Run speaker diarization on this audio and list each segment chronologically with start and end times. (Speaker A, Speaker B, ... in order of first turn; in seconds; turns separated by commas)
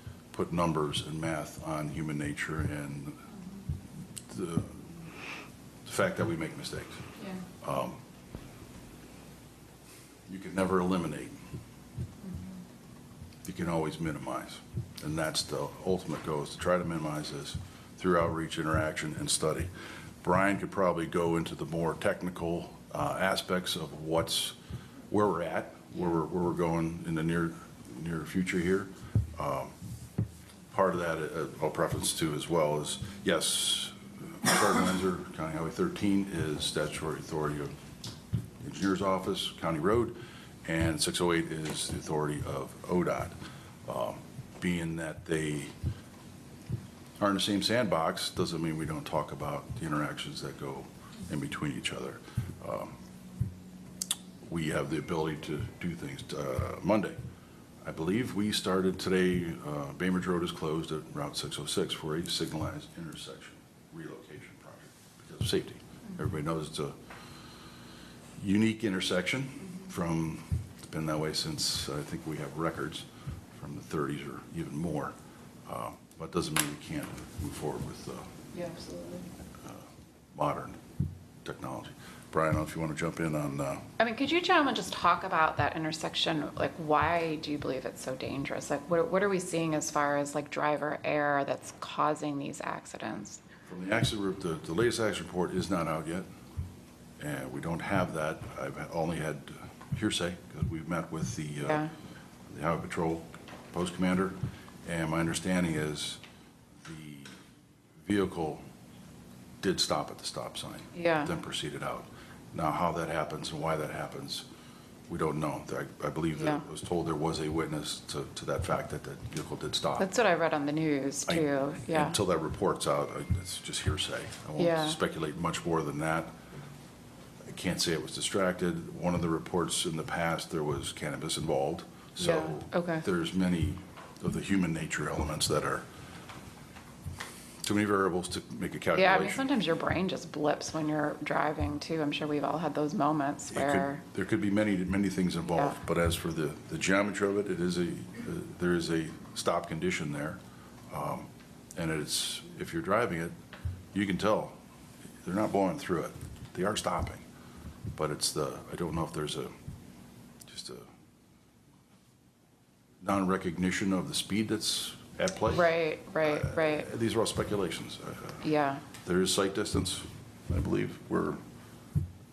Speaker A: 0.3-3.3, Speaker A: 4.2-5.1, Speaker A: 5.8-8.0, Speaker A: 10.3-11.4, Speaker A: 13.4-19.7, Speaker A: 20.2-24.6, Speaker A: 25.1-29.8, Speaker A: 30.7-37.7, Speaker A: 38.6-45.7, Speaker A: 47.2-53.0, Speaker A: 54.4-57.2, Speaker A: 57.8-67.0, Speaker A: 68.4-75.2, Speaker A: 75.7-78.3, Speaker B: 78.5-79.3, Speaker A: 79.6-80.8, Speaker A: 81.4-83.9, Speaker B: 84.0-93.4, Speaker A: 93.7-96.3, Speaker A: 97.2-101.9, Speaker B: 101.6-101.9, Speaker A: 102.5-106.2, Speaker A: 106.8-107.4, Speaker A: 108.0-108.6, Speaker A: 109.6-114.5, Speaker B: 110.9-111.3, Speaker A: 115.1-120.1, Speaker B: 116.4-116.6, Speaker B: 120.0-122.2, Speaker A: 121.3-126.4, Speaker B: 124.6-125.0, Speaker A: 127.5-135.9, Speaker B: 132.2-133.1, Speaker A: 137.6-139.5, Speaker B: 138.9-144.0, Speaker A: 143.5-150.4, Speaker A: 150.9-153.3, Speaker A: 153.9-154.6, Speaker A: 155.2-157.2, Speaker A: 158.0-159.5, Speaker A: 160.5-160.9, Speaker A: 163.0-171.4, Speaker B: 165.5-166.9, Speaker B: 168.4-168.8